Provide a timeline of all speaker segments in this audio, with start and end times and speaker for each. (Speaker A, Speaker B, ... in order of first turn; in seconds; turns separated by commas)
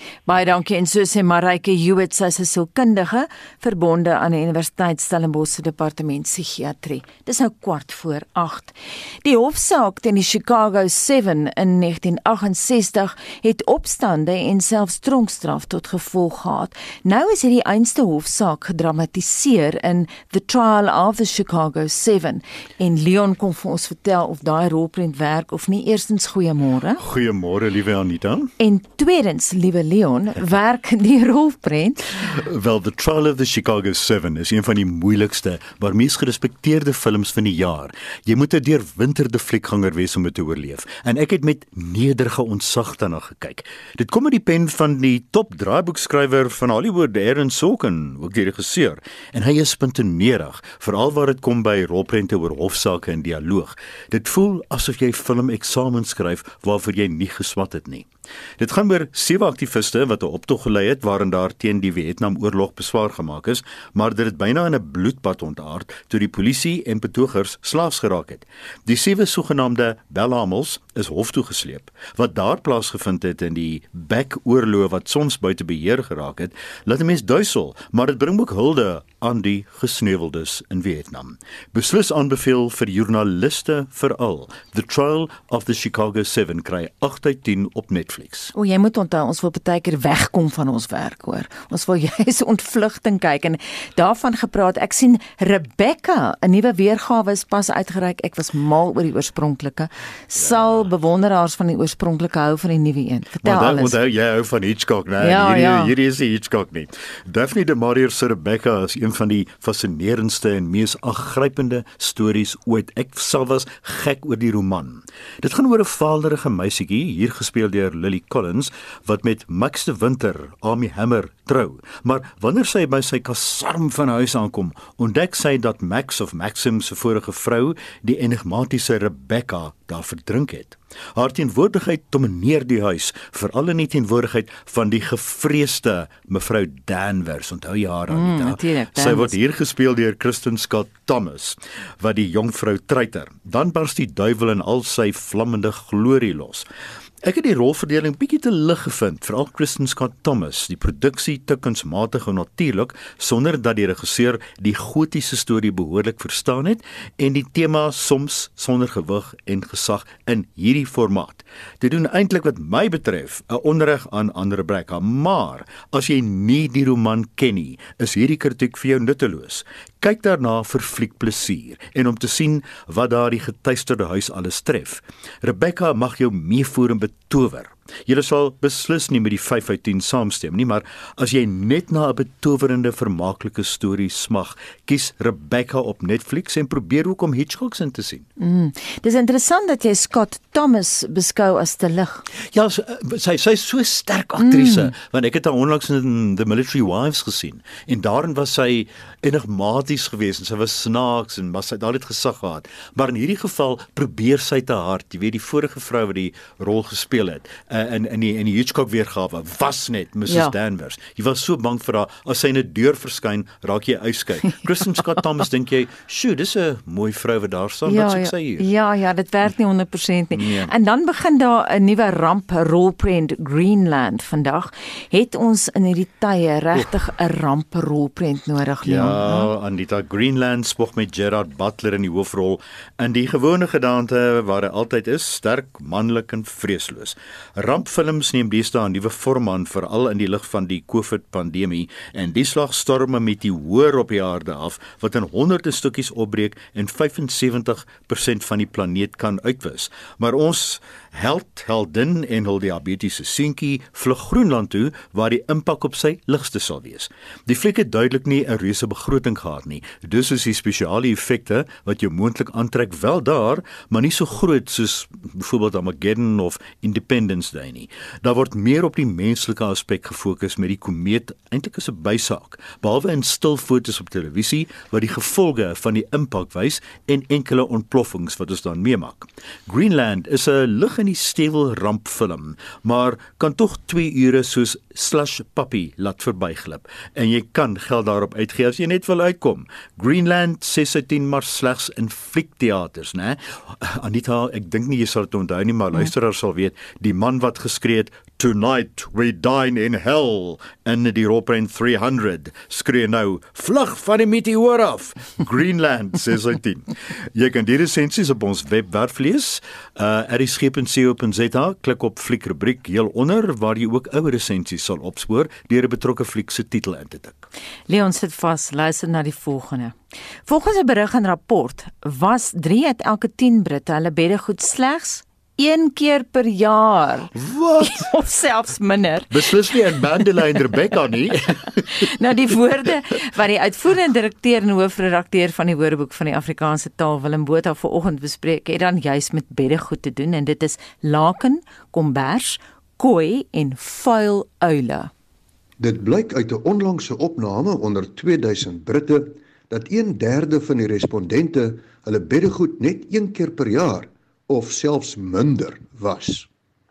Speaker A: 0.3-27.0, Speaker B: 27.0-28.5, Speaker A: 28.6-32.1, Speaker B: 32.2-88.5, Speaker A: 88.5-104.0, Speaker B: 100.3-100.9, Speaker B: 103.4-146.7, Speaker A: 105.2-105.9, Speaker A: 138.1-139.4, Speaker B: 147.2-188.2, Speaker A: 188.4-192.2, Speaker B: 192.5-218.7, Speaker A: 194.4-194.9, Speaker A: 210.3-210.6, Speaker A: 217.9-229.5, Speaker B: 220.3-220.7, Speaker B: 228.8-317.5, Speaker A: 317.9-319.9, Speaker A: 320.5-329.4, Speaker B: 327.4-328.1, Speaker B: 329.3-331.9, Speaker A: 331.9-345.1, Speaker C: 345.8-356.5